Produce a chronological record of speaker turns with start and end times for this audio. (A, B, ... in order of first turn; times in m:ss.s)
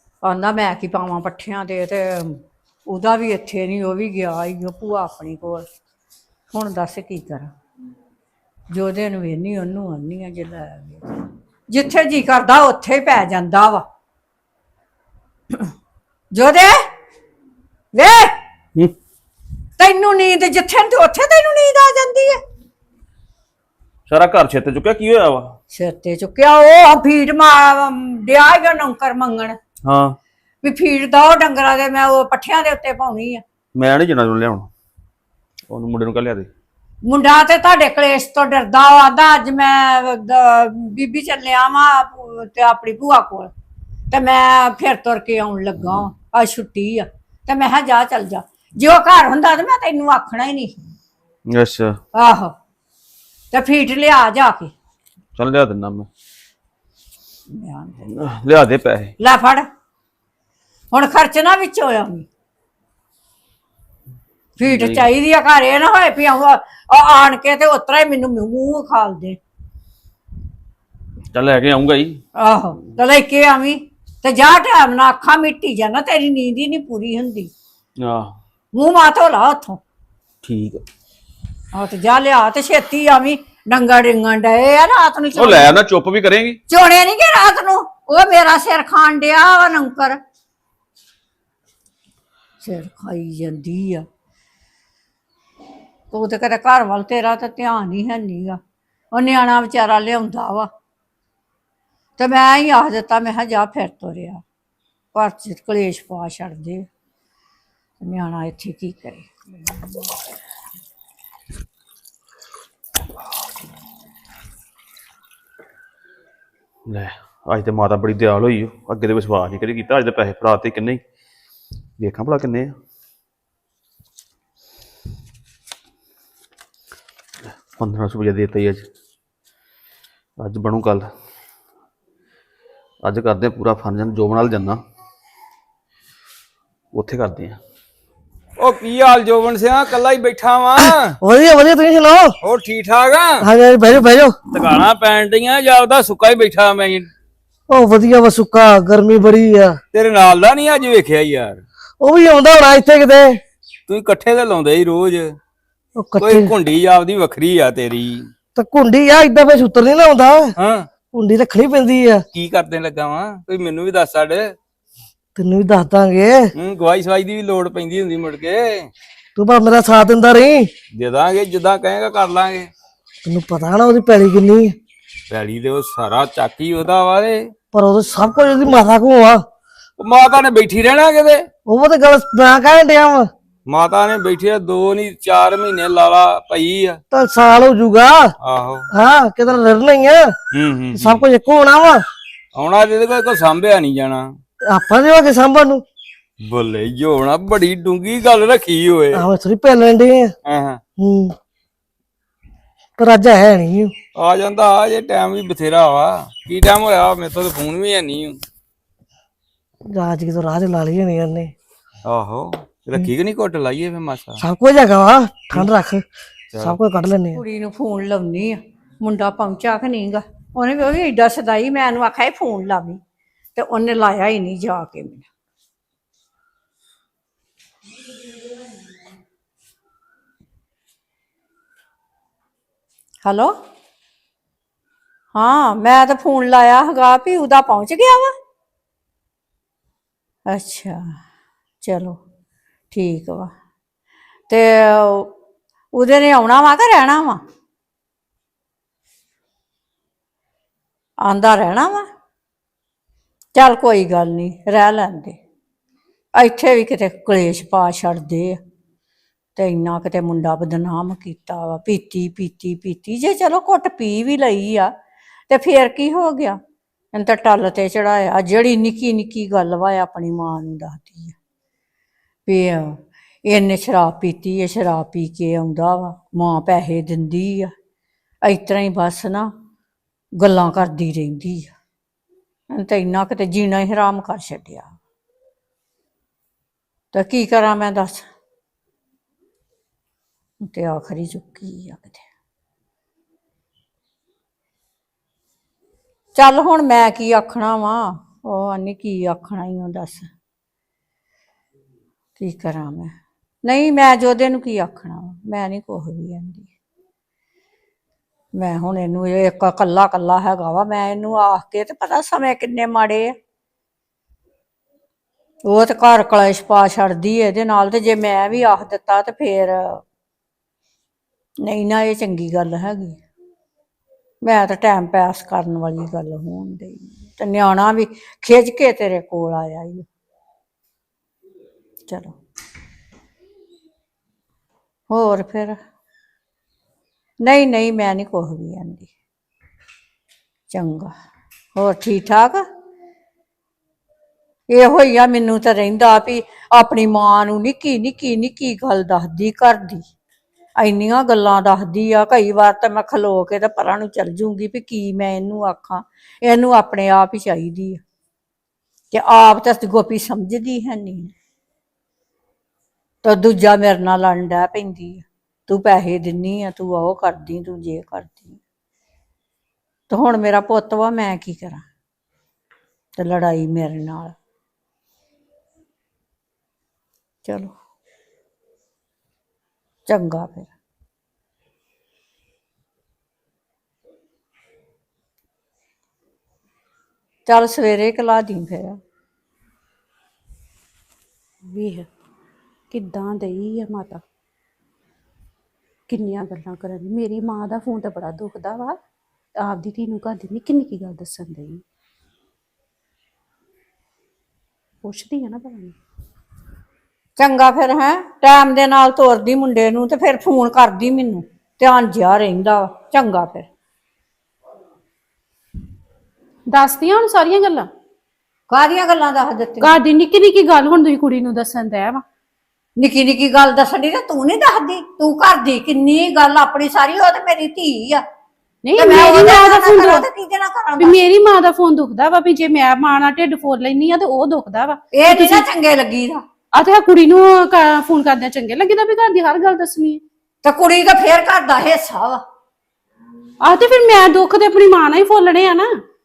0:00.2-0:05.6 A
0:06.5-0:07.5 A
0:08.7-0:11.0 A
0:11.7-0:13.8 A
0:16.3-0:16.8 A
0:17.9-0:18.3 A
0:19.8-0:22.4 A
0:24.1-0:25.5 B
0:25.7-0:29.6 A
0:29.8-0:30.1 B
0:30.6-0:33.4 A
0:33.7-0:34.7 B
0:35.7-0:36.5 B
0:37.0-0:43.5 A
0:44.1-0:50.8 A
0:51.5-0:52.0 B
0:52.1-0:52.5 A
0:53.5-0:54.7 A
0:55.4-0:56.1 B
0:57.5-0:58.1 A
0:58.1-0:59.1 B
0:59.2-0:59.6 A
1:00.9-1:02.2 A
1:04.6-1:09.4 A
1:04.6-1:05.1 B
1:11.3-1:12.2 B
1:12.4-1:17.5 A
1:18.0-1:18.3 B
1:18.8-1:19.8 A
1:20.4-1:20.8 B
1:21.7-1:25.8 A
1:25.4-1:26.6 B
1:26.7-1:30.2 A
1:32.6-1:34.0 A
1:36.1-1:38.6 A
1:39.1-1:40.7 A
1:42.2-1:44.4 A
1:45.1-1:46.8 A
1:48.0-1:49.3 A
1:56.9-2:01.0 B
2:02.0-2:02.7 B
2:07.7-2:08.8 B
2:10.4-2:11.1 B
2:13.0-2:14.8 B
2:16.9-2:17.6 B
2:18.6-2:21.2 C
2:20.8-2:22.3 D
2:22.4-2:23.4 C
2:23.4-2:24.4 D
2:24.5-2:27.1 C
2:27.7-2:29.8 D
2:29.9-2:31.6 C
2:32.0-2:33.4 D
2:33.9-2:35.3 C
2:36.0-2:36.5 D
2:36.2-2:38.3 C
2:38.6-2:40.5 D
2:40.6-2:40.8 C
2:41.1-2:42.2 D
2:42.3-2:44.5 C
2:45.4-2:46.5 D
2:46.6-2:48.9 C
2:49.4-2:50.7 D
2:50.9-2:52.7 C
2:53.2-2:54.8 D
2:55.3-2:57.5 C
2:57.7-2:59.4 D
3:00.0-3:01.4 C
3:01.7-3:03.3 D
3:03.7-3:07.0 C
3:07.1-3:08.3 D
3:08.4-3:08.9 C
3:08.9-3:10.3 D
3:10.5-3:11.2 C
3:10.9-3:12.0 D
3:12.6-3:14.3 C
3:14.7-3:15.8 D
3:16.4-3:19.2 C
3:19.1-3:20.3 D
3:20.4-3:20.8 C
3:21.0-3:21.3 D
3:23.0-3:23.9 D
3:24.2-3:28.4 C
3:29.9-3:31.5 D
3:32.0-3:34.4 C
3:34.4-3:36.0 D
3:36.6-3:37.4 D
3:37.3-3:43.0 A
3:43.5-3:45.2 A
3:53.2-3:53.5 A
3:55.3-3:58.3 A
4:00.5-4:01.1 A
4:01.8-4:02.2 A
4:02.9-4:03.5 A
4:04.5-4:05.3 A
4:05.9-4:07.4 A
4:11.2-4:12.0 A
4:13.5-4:15.4 A
4:16.4-4:18.6 A
4:19.6-4:24.9 A
4:25.5-4:26.6 A
4:27.1-4:31.3 A
4:32.5-4:33.0 A
4:33.5-4:37.7 A
4:38.4-4:39.5 A
4:40.4-4:41.7 A
4:42.7-4:44.9 A
4:47.1-4:48.2 A
4:50.6-4:52.2 A
4:56.4-5:00.3 A
5:02.4-5:03.1 A
5:03.6-5:06.7 A
5:08.6-5:13.3 A
5:15.6-5:20.0 A
5:21.6-5:23.2 A
5:24.4-5:30.0 A
5:32.1-5:32.4 A
5:35.1-5:35.8 A
5:37.4-5:39.1 A
5:40.7-5:41.1 A
5:41.7-5:42.6 A
5:44.7-5:50.0 A
5:50.8-5:58.0 A
5:59.1-6:01.3 A
6:03.2-6:08.6 A
6:10.1-6:11.8 A
6:13.2-6:14.3 A
6:17.4-6:17.7 A
6:20.1-6:20.7 A
6:27.5-6:29.0 A
6:31.7-6:32.1 E
6:32.9-6:34.2 E
6:36.1-6:39.0 E
6:39.6-6:41.8 E
6:45.0-6:45.9 E
6:47.4-6:53.7 A
6:56.7-6:57.9 E
6:58.7-6:59.9 A
6:59.8-7:02.2 E
7:03.0-7:08.2 A
7:08.8-7:10.2 E
7:09.0-7:11.2 A
7:11.0-7:15.6 E
7:15.1-7:16.4 A
7:16.7-7:20.2 E
7:20.6-7:22.4 A
7:23.6-7:25.9 E